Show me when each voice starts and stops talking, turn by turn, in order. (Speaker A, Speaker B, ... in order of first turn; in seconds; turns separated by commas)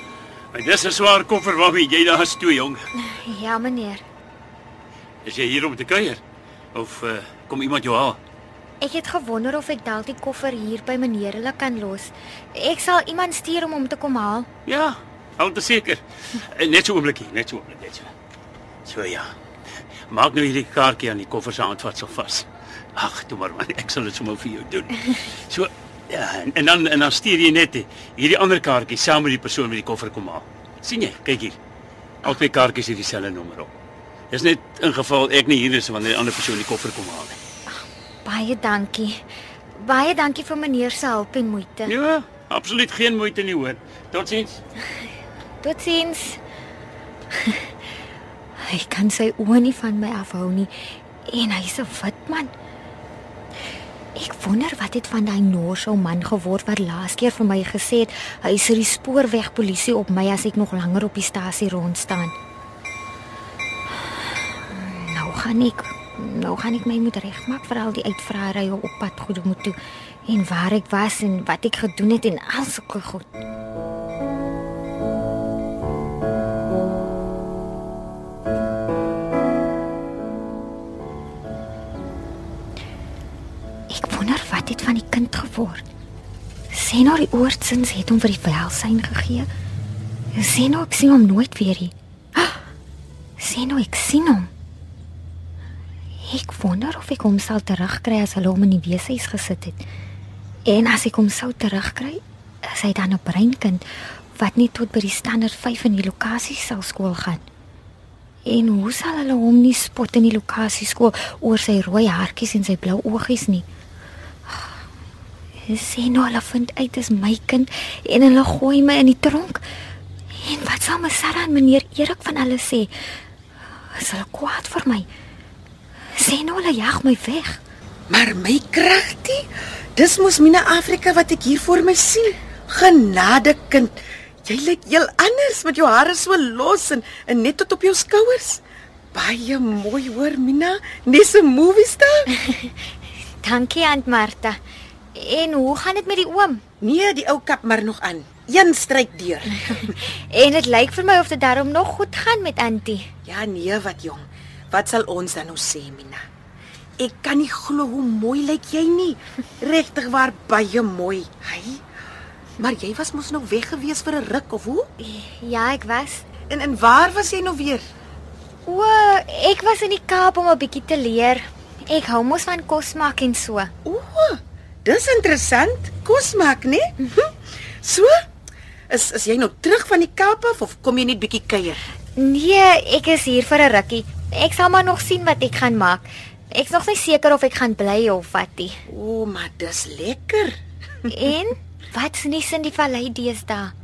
Speaker A: 0.5-2.8, Speaker B: 3.0-4.0, Speaker A: 5.2-6.2, Speaker A: 6.7-8.2, Speaker B: 8.8-14.5, Speaker A: 14.7-18.1, Speaker A: 18.8-19.3, Speaker A: 20.1-31.6, Speaker A: 32.2-33.7, Speaker A: 34.3-37.4, Speaker B: 38.2-39.2, Speaker B: 39.8-41.9, Speaker A: 41.9-44.6, Speaker B: 45.6-46.4, Speaker B: 47.4-47.7, Speaker B: 48.6-52.5, Speaker B: 54.2-62.3, Speaker B: 64.6-69.8, Speaker B: 70.3-73.3, Speaker B: 83.9-85.8, Speaker B: 86.7-89.5, Speaker B: 90.3-92.6, Speaker B: 93.4-94.5, Speaker B: 96.2-99.8, Speaker B: 100.7-103.8, Speaker B: 104.3-107.5, Speaker B: 108.5-113.7, Speaker B: 114.5-114.7, Speaker B: 115.7-119.6, Speaker B: 120.3-123.1, Speaker B: 123.8-125.1, Speaker B: 126.2-127.6, Speaker C: 128.1-138.6, Speaker C: 139.1-142.3, Speaker B: 142.3-142.7, Speaker B: 143.4-144.6, Speaker B: 145.1-146.6, Speaker C: 146.8-149.9, Speaker B: 149.8-153.1, Speaker C: 153.2-156.2, Speaker C: 157.0-161.8, Speaker C: 162.6-164.9, Speaker B: 165.0-166.3, Speaker C: 166.5-167.8, Speaker B: 168.7-173.7, Speaker C: 173.8-178.2, Speaker C: 178.9-181.8, Speaker B: 182.2-188.8, Speaker C: 188.9-190.6, Speaker B: 191.1-193.8